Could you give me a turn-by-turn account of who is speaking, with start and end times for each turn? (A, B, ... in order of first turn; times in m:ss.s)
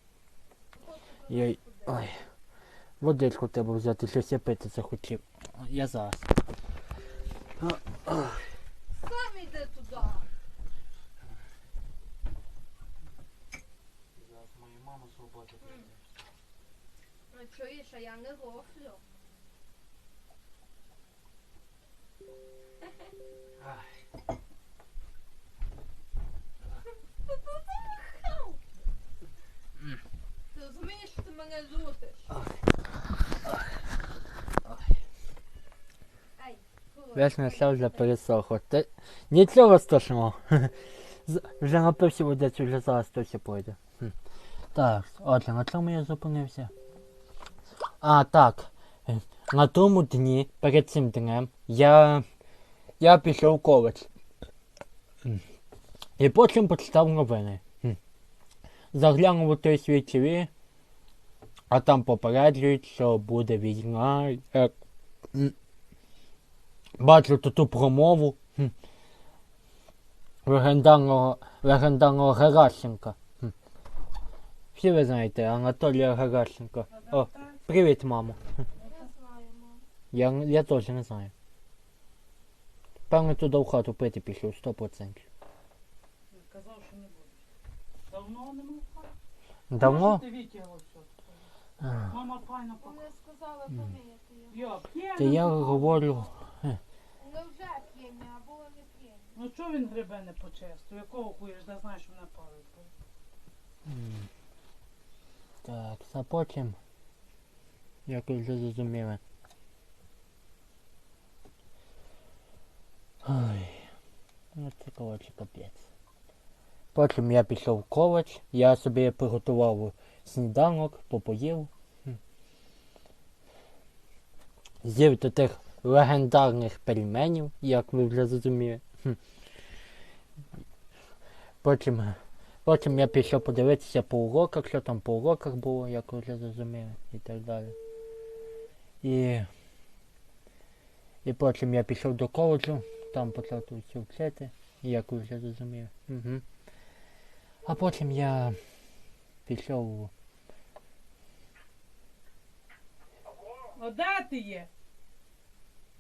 0:00.7-0:02.1 A
0:01.3-0:02.2 B
0:03.0-0:06.3 B
0:07.6-0:08.4 B
0:08.9-0:10.3 A
0:14.2-0:16.0 B
0:15.6-0:15.9 A
0:17.3-0:19.0 A
0:23.6-0:23.9 B
0:27.3-0:28.6 A
0:30.5-0:32.4 A
0:36.4-0:38.2 A
0:37.2-0:44.1 B
0:44.7-0:46.7 B
0:48.0-0:52.2 B
0:53.0-0:54.1 B
0:56.2-0:58.0 B
0:58.9-1:00.5 B
1:01.7-1:04.7 B
1:07.0-1:08.7 B
1:10.5-1:13.5 B
1:14.8-1:18.4 B
1:16.9-1:17.6 C
1:18.8-1:19.9 A
1:20.1-1:21.3 B
1:23.1-1:25.2 B
1:26.3-1:27.4 C
1:28.1-1:29.1 C
1:29.7-1:30.2 B
1:29.8-1:31.3 C
1:31.8-1:32.2 B
1:32.1-1:33.0 C
1:32.8-1:34.7 A
1:34.5-1:36.0 C
1:35.2-1:36.8 B
1:37.2-1:39.4 A
1:39.4-1:42.9 C
1:43.8-1:44.3 B
1:45.6-1:46.8 B
1:48.1-1:49.2 B
1:53.2-1:53.9 B
1:54.6-1:55.8 B
1:56.9-2:01.7 B
2:04.8-2:09.2 B
2:11.6-2:17.8 B
2:19.0-2:19.5 B
2:21.2-2:26.4 B
2:27.6-2:28.6 B
2:29.5-2:30.1 B
2:33.7-2:34.7 C